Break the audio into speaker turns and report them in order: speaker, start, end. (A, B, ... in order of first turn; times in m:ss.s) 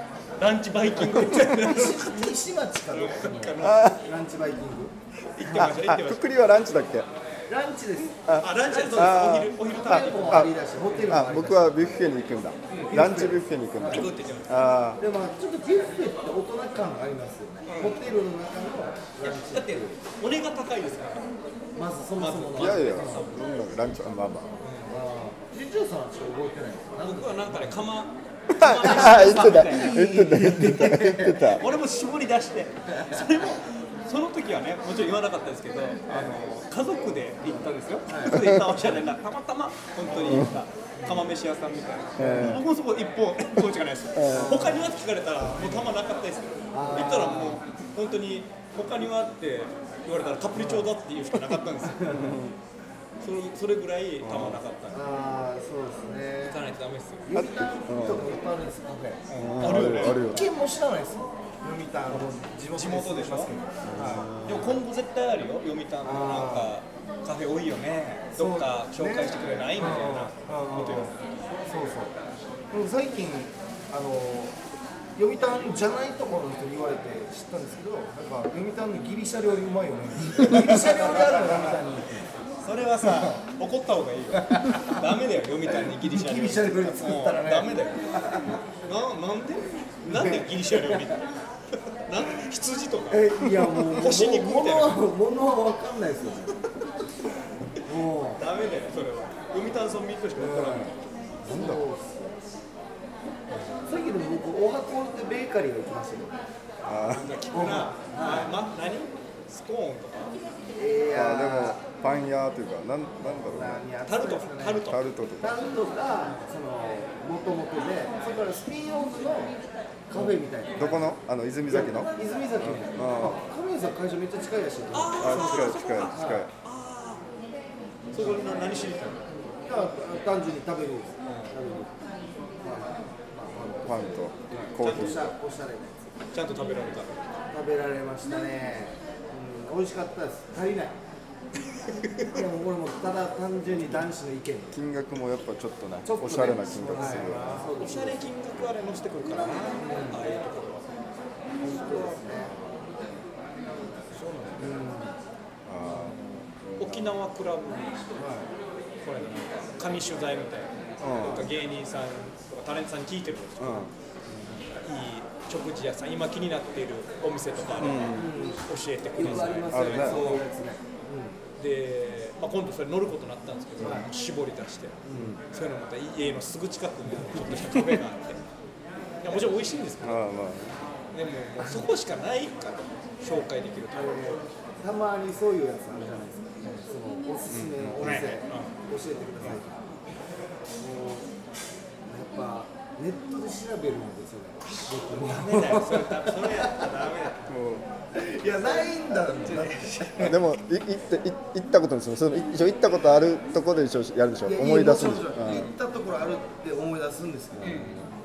0:00.4-0:02.3 A
0:01.0-0:05.0 B
0:02.9-0:04.0 A
0:03.6-0:04.0 C
0:05.3-0:06.2 A
0:05.5-0:07.1 C
0:07.5-0:12.0 B
0:08.3-0:10.5 C
0:08.3-0:10.5 A
0:11.1-0:15.0 C
0:12.7-0:13.0 A
0:12.8-0:14.1 B
0:13.8-0:14.8 A
0:15.0-0:20.0 B
0:17.7-0:18.0 A
0:19.2-0:21.3 A
0:21.8-0:23.3 B
0:22.2-0:23.4 A
0:22.6-0:24.6 C
0:24.6-0:25.0 A
0:24.9-0:27.8 B
0:27.0-0:30.0 A
0:28.5-0:31.6 C
0:28.8-0:31.5 B
0:31.4-0:52.4 A
0:32.9-0:33.4 B
0:36.1-0:36.4 B
0:38.1-0:39.0 B
0:40.1-0:41.3 B
0:42.2-0:42.6 C
0:42.2-0:42.6 B
0:44.2-0:44.7 C
0:44.3-0:44.9 B
0:45.6-0:45.9 B
0:46.7-0:47.6 B
0:50.6-0:50.9 B
0:51.9-0:52.3 B
0:52.1-0:52.6 C
0:53.2-0:55.1 A
0:54.2-0:54.6 C
0:54.9-0:56.6 B
0:56.5-0:57.3 A
0:57.3-1:04.3 B
0:57.3-0:58.3 C
0:59.3-1:00.4 A
0:59.4-1:00.4 C
1:02.1-1:03.5 A
1:03.8-1:04.8 C
1:04.4-1:11.2 A
1:06.0-1:06.7 B
1:08.3-1:11.1 B
1:11.7-1:12.1 B
1:12.7-1:14.6 B
1:15.2-1:22.3 B
1:20.4-1:21.8 A
1:22.6-1:28.1 A
1:23.0-1:23.3 B
1:24.4-1:25.0 B
1:25.9-1:28.6 B
1:28.8-1:35.0 A
1:30.1-1:31.1 B
1:33.1-1:36.6 B
1:37.8-1:38.4 B
1:38.4-1:40.9 A
1:40.4-1:42.4 B
1:41.5-1:41.8 C
1:43.9-1:46.3 B
1:46.8-1:47.3 C
1:47.0-1:50.4 A
1:47.5-1:48.6 B
1:50.8-1:51.8 B
1:51.1-1:53.8 C
1:53.2-1:54.9 B
1:54.1-1:55.0 A
1:54.9-1:55.6 C
1:55.4-1:59.6 B
2:00.1-2:01.2 B
2:00.2-2:03.4 C
2:01.7-2:06.5 B
2:04.9-2:07.2 A
2:05.2-2:06.5 C
2:08.1-2:09.3 A
2:08.1-2:08.4 B
2:09.6-2:11.9 B
2:11.2-2:11.6 A
2:12.6-2:16.1 B
2:13.8-2:15.4 C
2:14.8-2:15.2 A
2:16.3-2:17.3 A
2:17.5-2:21.0 B
2:21.8-2:22.4 A
2:22.3-2:24.8 B
2:24.7-2:27.7 C
2:26.0-2:28.2 B
2:27.0-2:30.9 A
2:29.8-2:30.2 B
2:31.6-2:32.6 B
2:34.1-2:34.7 A
2:34.6-2:35.2 B
2:35.6-2:36.2 C
2:35.9-2:36.5 B
2:36.8-2:38.0 A
2:38.2-2:38.5 B
2:39.0-2:43.9 A
2:41.0-2:41.5 C
2:41.2-2:41.5 B
2:43.6-2:43.9 C
2:44.3-2:44.6 B
2:44.8-2:50.4 A
2:47.8-2:48.3 C
2:48.0-2:51.4 B
2:49.2-2:50.4 C
2:51.6-2:58.4 A
2:53.8-2:54.1 B
2:55.1-2:55.3 B
2:55.1-2:55.4 C
2:59.2-3:00.3 A
3:00.0-3:00.8 C
3:01.1-3:04.4 A
3:01.6-3:01.9 B
3:03.9-3:09.9 B
3:07.5-3:08.2 C
3:08.0-3:08.8 A
3:10.8-3:11.3 B
3:12.0-3:16.9 B
3:14.7-3:17.6 A
3:17.5-3:17.8 C
3:18.1-3:20.4 B
3:19.3-3:20.3 A
3:20.2-3:25.7 C
3:24.4-3:27.9 B
3:27.6-3:28.1 C
3:27.6-3:28.1 A